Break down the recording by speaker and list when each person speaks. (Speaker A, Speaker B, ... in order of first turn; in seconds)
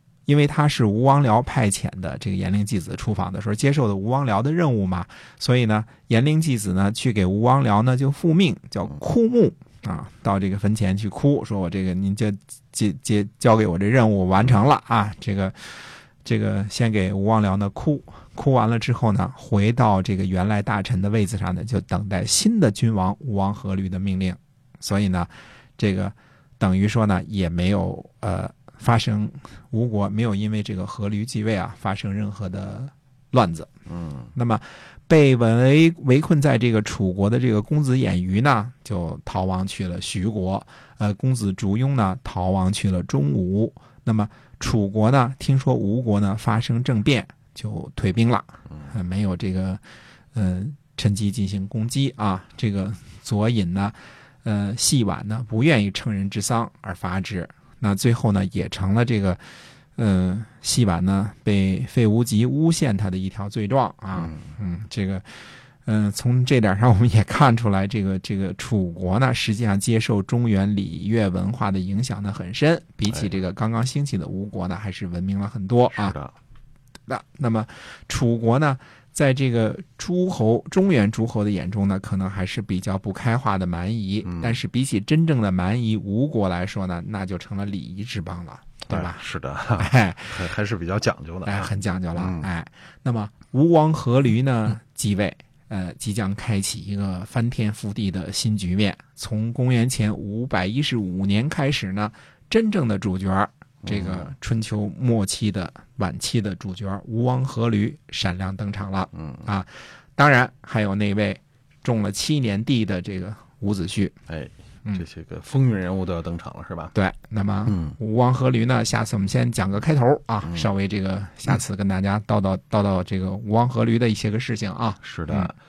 Speaker A: 0.3-33.7, 34.3-49.8, 50.3-59.4, 60.0-76.2, 77.1-89.2, 89.8-90.4, 91.5-114.2, 116.9-125.5
Speaker B: 33.9-34.3, 64.2-64.5, 75.9-76.3, 84.2-84.6, 88.9-92.5, 103.8-104.3, 109.2-109.5, 114.3-116.9, 117.7-118.0, 120.4-120.7, 125.0-125.5